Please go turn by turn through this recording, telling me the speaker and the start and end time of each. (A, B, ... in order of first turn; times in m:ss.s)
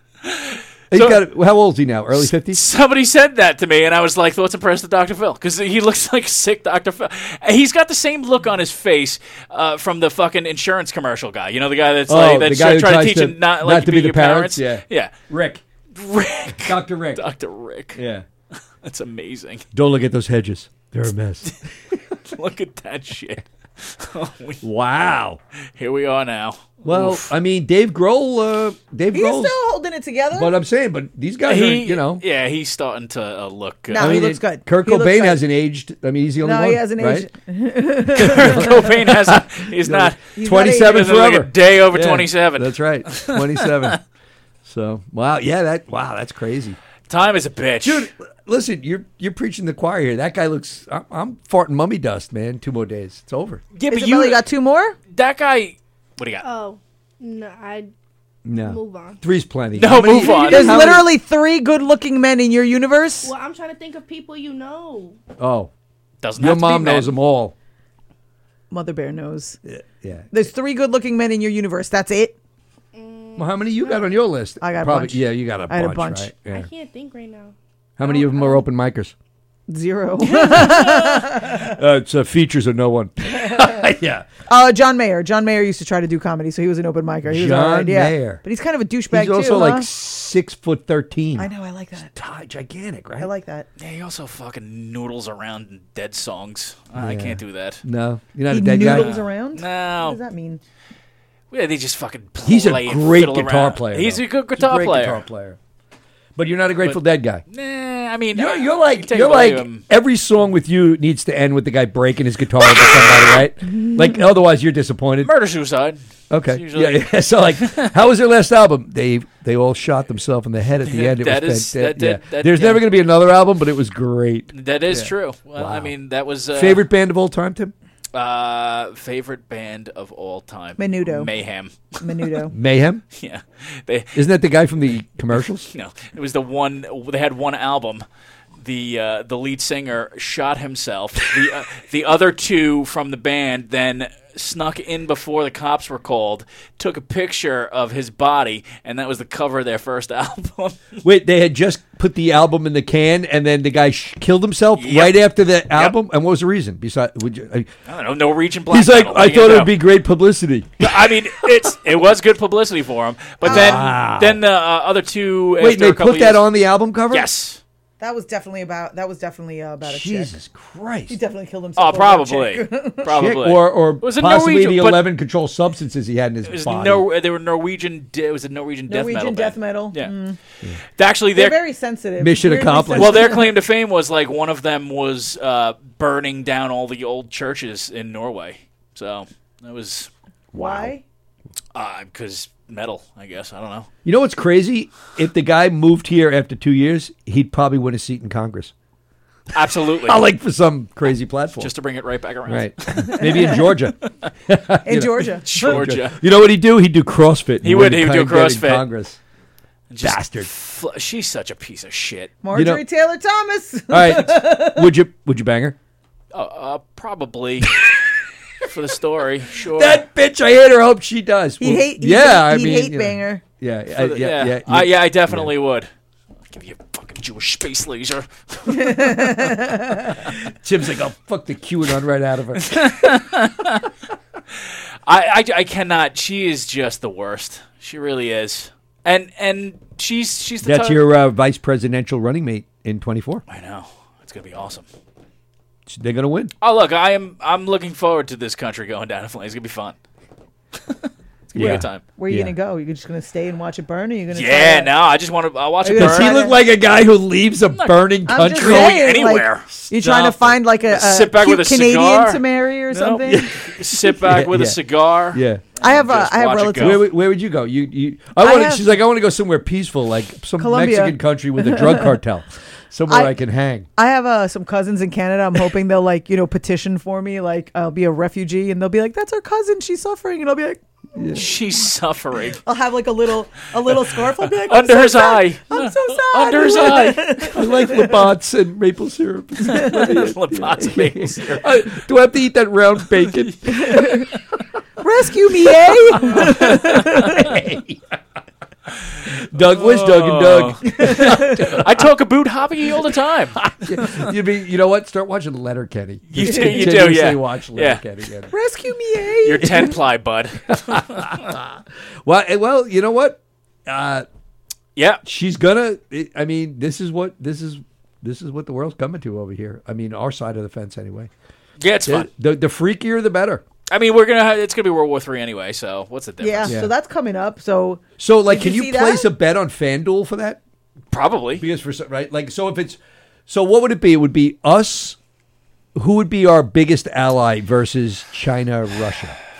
0:00.2-0:01.2 A
0:00.9-0:02.6 B
0:02.1-0:15.1 A
0:12.1-0:15.6 B
0:15.9-0:18.0 A
0:16.6-0:17.2 B
0:17.9-0:18.2 B
0:18.8-0:19.6 A
0:19.7-0:21.4 B
0:22.2-0:24.6 A
0:24.6-0:25.4 B
0:25.8-0:27.3 A
0:26.8-0:29.6 B
0:29.1-0:30.5 C
0:30.3-0:32.2 B
0:31.4-0:34.3 A
0:33.9-0:35.4 C
0:33.9-0:37.3 B
0:36.4-0:38.7 C
0:38.2-0:44.0 A
0:38.2-0:44.0 B
0:40.3-0:41.1 C
0:44.6-0:46.8 B
0:47.1-0:48.1 A
0:47.8-0:53.6 B
0:53.7-0:54.4 A
0:53.9-0:55.0 C
0:55.1-0:56.4 A
0:56.4-0:57.9 D
0:58.4-1:01.1 B
0:58.5-0:59.2 D
0:59.7-1:01.0 A
1:00.1-1:03.3 C
1:03.2-1:05.2 D
1:05.4-1:05.7 B
1:06.2-1:07.1 A
1:06.4-1:07.5 B
1:08.7-1:09.6 C
1:09.6-1:10.3 B
1:10.3-1:12.4 C
1:12.9-1:14.2 D
1:13.4-1:16.7 B
1:14.6-1:16.3 C
1:16.5-1:17.5 D
1:18.0-1:19.1 B
1:19.7-1:21.7 C
1:20.4-1:21.3 D
1:21.5-1:24.3 B
1:23.4-1:23.8 C
1:24.5-1:29.9 C
1:27.2-1:28.4 B
1:29.1-1:31.5 B
1:31.4-1:32.1 C
1:32.1-1:33.3 B
1:33.2-1:33.7 C
1:33.8-1:37.8 A
1:37.0-1:39.2 B
1:38.5-1:40.6 C
1:38.8-1:40.2 A
1:41.5-1:45.2 A
1:42.4-1:45.6 B
1:46.4-1:47.4 B
1:46.8-1:49.8 A
1:48.3-1:55.3 B
1:52.7-1:53.4 A
1:55.2-1:57.9 A
1:56.3-2:05.9 B
2:00.8-2:02.9 A
2:04.5-2:06.8 A
2:06.5-2:07.7 B
2:08.1-2:12.3 A
2:10.8-2:11.3 C
2:12.0-2:12.5 C
2:12.5-2:13.0 B
2:13.1-2:14.2 A
2:14.1-2:15.7 B
2:15.6-2:18.0 A
2:18.6-2:30.9 A
2:31.0-2:37.7 B
2:34.8-2:35.9 A
2:37.9-2:39.8 A
2:38.7-2:41.1 B
2:40.8-2:46.5 A
2:43.4-2:43.9 C
2:43.4-2:44.4 B
2:45.6-2:47.3 B
2:47.1-2:47.6 A
2:48.0-2:50.4 C
2:49.8-2:51.2 B
2:51.1-2:53.1 C
2:51.8-2:55.1 A
2:53.1-2:57.0 B
2:56.4-3:00.1 A
2:58.9-3:00.4 C
3:01.0-3:01.6 A
3:01.3-3:03.5 C
3:02.2-3:03.4 B
3:03.0-3:10.1 A
3:10.5-3:10.9 B
3:10.6-3:11.0 C
3:11.7-3:13.9 A
3:14.0-3:18.7 B
3:19.5-3:20.2 A
3:20.0-3:21.7 B
3:21.6-3:23.6 A
3:22.5-3:29.2 B
3:24.8-3:25.7 C
3:25.4-3:26.2 A
3:27.6-3:28.8 A
3:29.9-3:32.3 A
3:30.0-3:30.5 B
3:32.4-3:34.9 C
3:32.5-3:32.8 B
3:33.9-3:35.8 B
3:36.3-3:37.8 A
3:37.7-3:38.1 B
3:38.6-3:40.0 A
3:39.7-3:45.5 B
3:41.6-3:43.4 C
3:44.0-3:45.9 A
3:46.5-3:49.5 A
3:48.7-3:50.0 C
3:50.2-3:52.9 B
3:52.6-3:53.9 A
3:55.0-4:01.0 A
4:00.6-4:03.4 B
4:03.5-4:04.8 A
4:05.9-4:06.5 B
4:06.6-4:09.9 A
4:11.5-4:12.0 A
4:11.5-4:12.5 B
4:12.2-4:14.9 C
4:14.3-4:16.4 A
4:15.8-4:16.6 C
4:15.9-4:19.1 B
4:17.7-4:27.0 A
4:18.3-4:23.5 C
4:23.3-4:24.8 B
4:25.3-4:25.6 B
4:25.8-4:27.0 C
4:26.8-4:33.9 B
4:28.4-4:29.0 C
4:30.6-4:32.1 C
4:33.1-4:33.4 C
4:33.9-4:40.8 C
4:41.2-4:41.5 B
4:41.3-4:42.6 A
4:42.6-4:48.2 C
4:44.6-4:47.5 A
4:46.6-4:54.0 B
4:49.7-4:51.6 A
4:53.7-4:54.2 C
4:53.9-4:54.4 A
4:55.0-4:57.5 C
4:56.1-4:58.2 B
4:56.2-4:57.3 A
4:59.4-5:01.9 B
4:59.6-5:04.3 A
5:01.1-5:01.5 C
5:03.7-5:08.5 B
5:06.3-5:08.0 A
5:06.4-5:06.7 C
5:08.5-5:09.9 C
5:09.4-5:11.5 A
5:10.7-5:14.2 B
5:15.0-5:15.2 A
5:15.2-5:21.3 B
5:21.8-5:22.3 A
5:22.0-5:23.6 B
5:23.9-5:26.7 A
5:26.4-5:29.3 C
5:28.2-5:30.6 B
5:31.1-5:31.6 A
5:31.6-5:35.2 B
5:36.0-5:39.4 B